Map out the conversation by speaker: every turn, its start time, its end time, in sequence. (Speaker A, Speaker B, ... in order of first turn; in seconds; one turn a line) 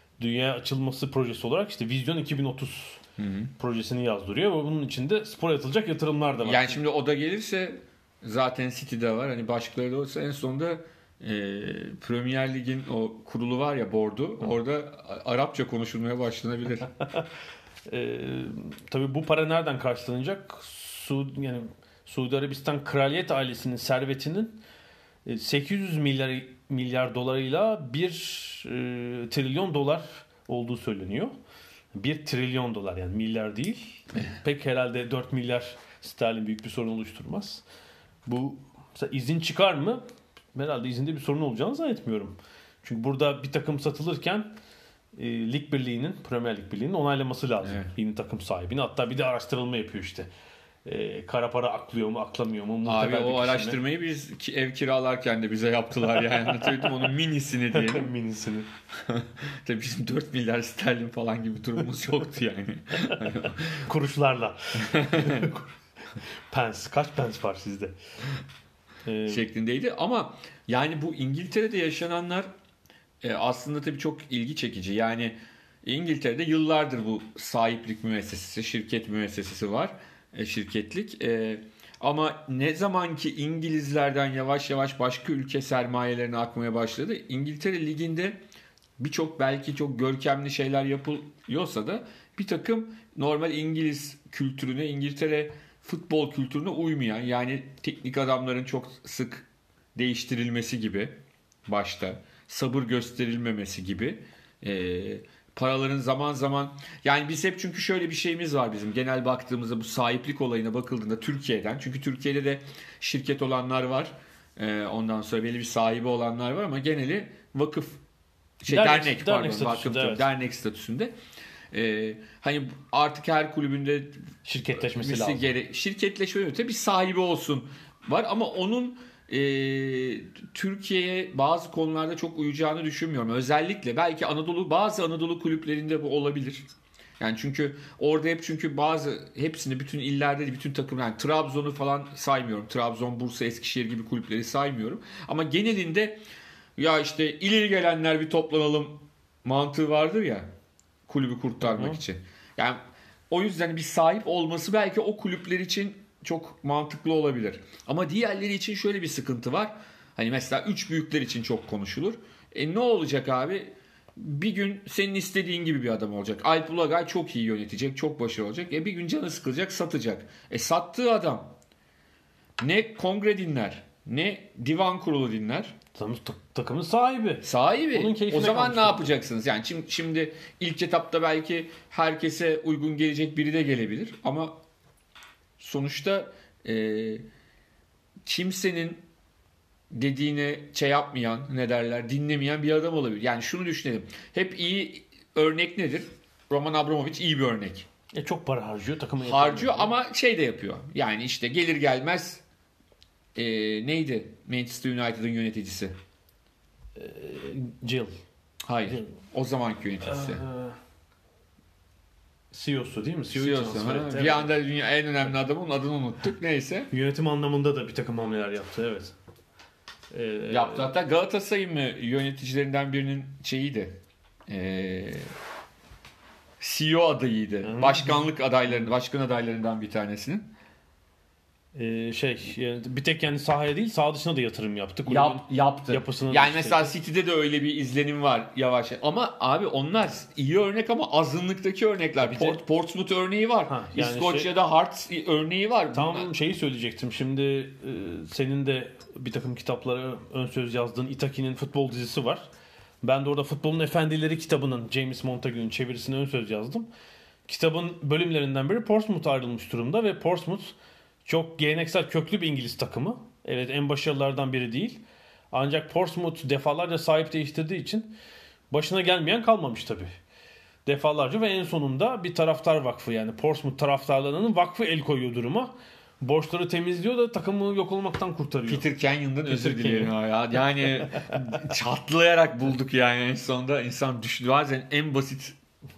Speaker A: 0.2-3.0
Speaker B: 3.2-3.5
Speaker A: 3.6-6.8
Speaker B: 6.4-16.9
Speaker A: 17.9-24.6
Speaker A: 25.2-31.3
Speaker A: 31.9-37.6
Speaker A: 38.2-40.0
Speaker A: 40.5-44.5
Speaker A: 45.1-50.3
Speaker B: 47.6-47.9
Speaker A: 50.8-53.8
Speaker B: 52.8-58.1
Speaker A: 57.7-58.7
Speaker B: 59.0-63.9
Speaker A: 63.8-65.7
Speaker B: 64.8-65.5
Speaker A: 66.2-67.9
Speaker A: 69.0-69.4
Speaker B: 69.3-72.5
Speaker B: 73.2-88.4
Speaker B: 89.0-118.0
Speaker B: 118.6-121.1
Speaker A: 118.7-120.3
Speaker B: 121.7-124.2
Speaker A: 124.4-125.5
Speaker B: 124.8-136.7
Speaker B: 137.2-146.2
Speaker B: 146.8-150.5
Speaker B: 151.1-152.8
Speaker A: 151.6-152.0
Speaker B: 153.3-171.5
Speaker B: 172.6-175.8
Speaker A: 175.9-179.1
Speaker B: 177.4-184.6
Speaker B: 185.6-187.3
Speaker B: 188.2-189.1
Speaker B: 189.9-197.9
Speaker A: 198.1-199.9
Speaker B: 199.2-202.4
Speaker B: 203.3-205.9
Speaker A: 206.9-208.2
Speaker B: 208.6-210.4
Speaker A: 210.0-210.8
Speaker A: 212.5-214.5
Speaker B: 213.3-216.9
Speaker A: 216.9-219.1
Speaker A: 220.1-220.9
Speaker B: 220.5-225.3
Speaker B: 226.6-230.5
Speaker A: 227.6-228.2
Speaker A: 231.7-236.9
Speaker B: 235.1-246.3
Speaker A: 242.2-242.6
Speaker A: 243.7-244.5
Speaker A: 245.9-252.5
Speaker A: 253.0-256.9
Speaker A: 257.5-260.7
Speaker A: 261.2-265.0
Speaker A: 265.5-268.1
Speaker A: 268.7-270.1
Speaker A: 270.9-278.9
Speaker B: 278.6-285.6
Speaker A: 279.4-280.1